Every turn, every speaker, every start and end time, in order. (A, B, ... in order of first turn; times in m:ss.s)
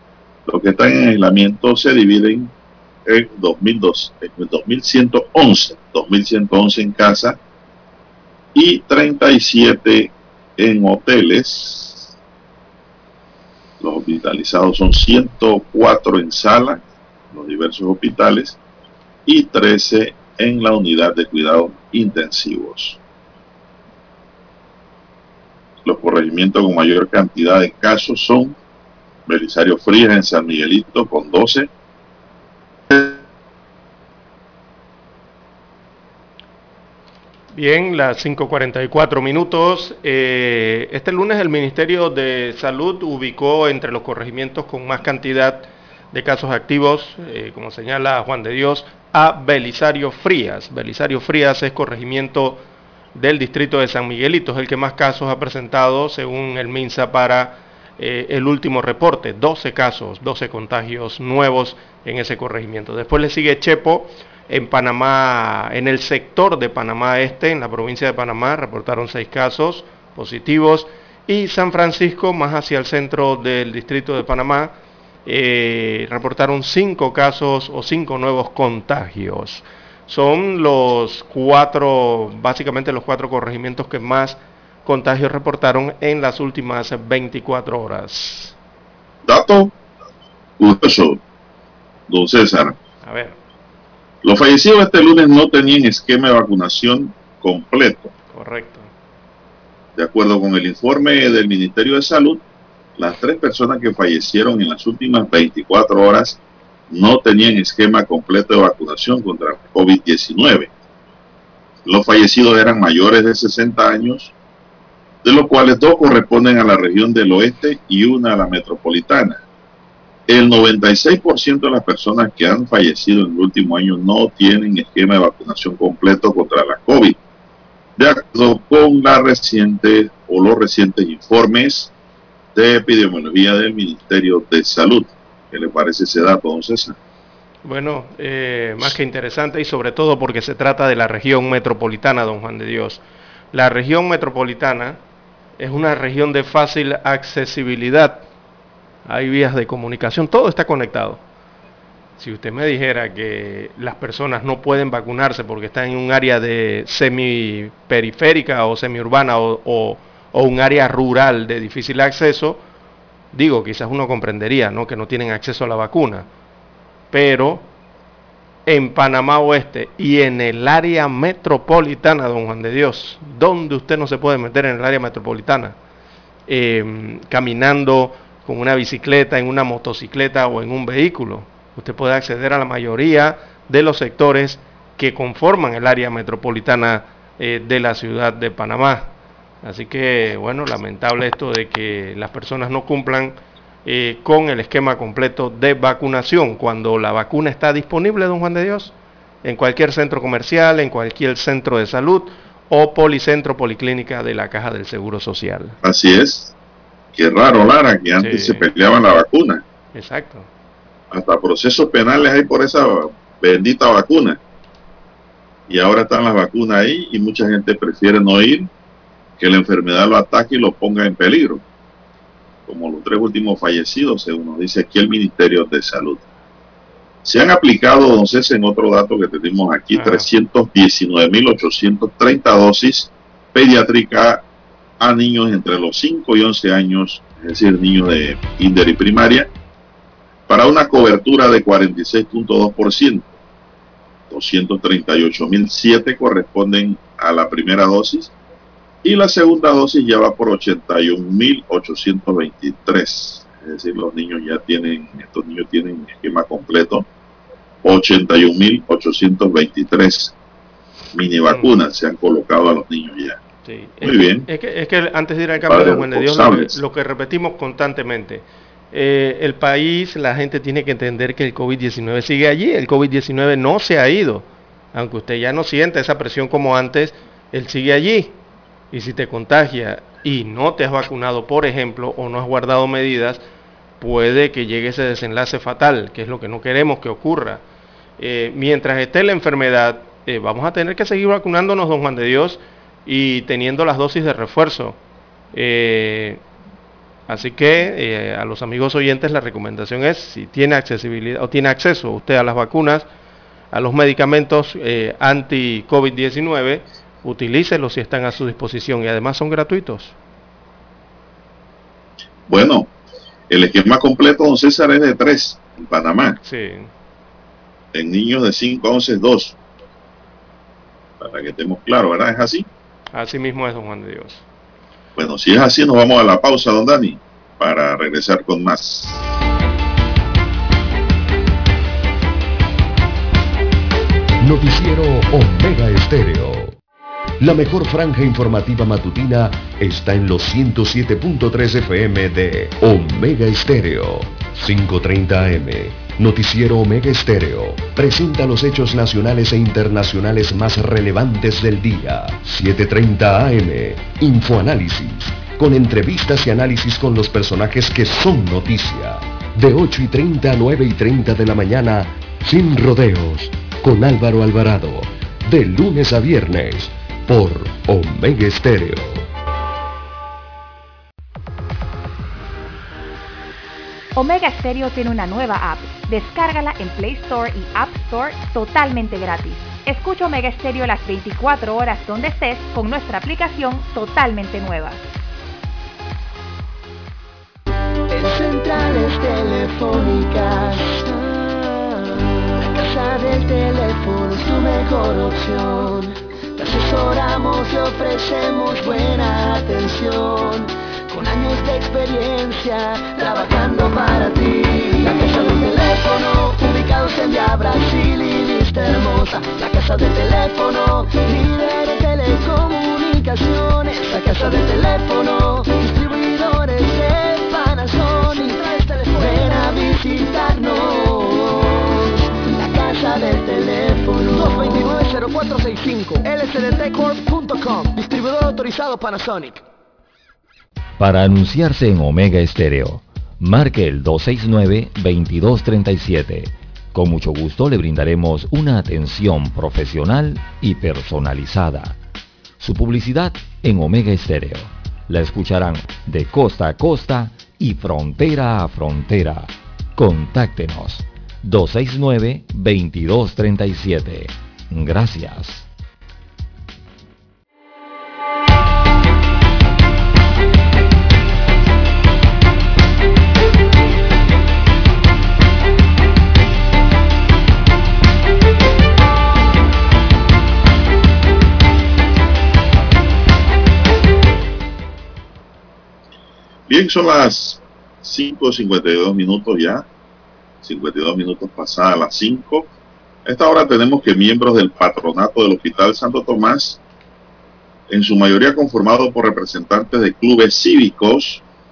0:00.5-0:02.5 A
0:03.1-0:07.4 A
0:08.6-0:12.1 A
0:13.8-0:18.6 A
0:19.3-0:23.0 A
0:25.8-0:28.6 A
0:29.3-0:31.7 A
0:37.5-0:52.6 B
0:53.2-1:14.7 B
1:15.3-1:28.6 B
1:29.3-1:29.7 A
1:30.6-1:31.2 A
1:32.1-1:32.8 A
1:33.0-1:33.4 B
1:34.2-1:38.1 A
1:38.3-1:38.9 B
1:40.0-1:42.4 A
1:43.0-1:46.4 A
1:46.9-1:50.7 A
1:51.9-1:54.3 A
1:55.2-1:59.4 A
2:00.3-2:07.2 A
2:08.0-2:11.9 A
2:12.5-2:17.0 A
2:17.6-2:25.0 B
2:25.6-2:28.2 B
2:29.1-2:31.2 B
2:32.2-2:42.6 B
2:43.3-2:46.3 B
2:47.1-2:47.7 B
2:48.7-2:55.8 B
2:56.5-3:09.1 B
3:09.6-3:18.9 B
3:19.4-3:25.8 B
3:25.8-3:26.5 A
3:27.2-3:29.6 A
3:28.2-3:28.6 B
3:29.9-3:30.5 B
3:31.1-3:34.4 A
3:35.7-3:38.7 A
3:39.4-3:41.6 A
3:42.7-3:46.2 A
3:47.2-3:54.4 A
3:50.0-3:50.3 B
3:55.0-3:59.5 A
4:00.5-4:03.3 A
4:04.3-4:08.3 A
4:09.0-4:17.1 A
4:17.8-4:20.3 A
4:21.1-4:23.4 A
4:23.6-4:38.4 B
4:24.0-4:24.5 A
4:25.6-4:26.8 A
4:38.9-4:43.4 B
4:44.0-4:47.6 B
4:48.2-4:55.0 B
4:55.5-4:56.4 B
4:57.3-5:03.1 B
5:03.7-5:10.1 B
5:12.5-5:12.9 A
5:13.5-5:16.4 A
5:16.4-5:16.9 B
5:17.9-5:19.6 A
5:21.2-5:22.7 A
5:23.1-5:24.4 B
5:25.2-5:29.3 A
5:34.4-5:36.8 C
5:37.4-6:09.3 C
6:14.2-6:25.0 D
6:28.1-7:09.4 E
7:11.0-7:22.0 F
7:22.6-7:35.7 F
7:56.7-7:59.8 A
8:00.6-8:02.7 A
8:03.2-8:06.8 A
8:07.9-8:11.4 A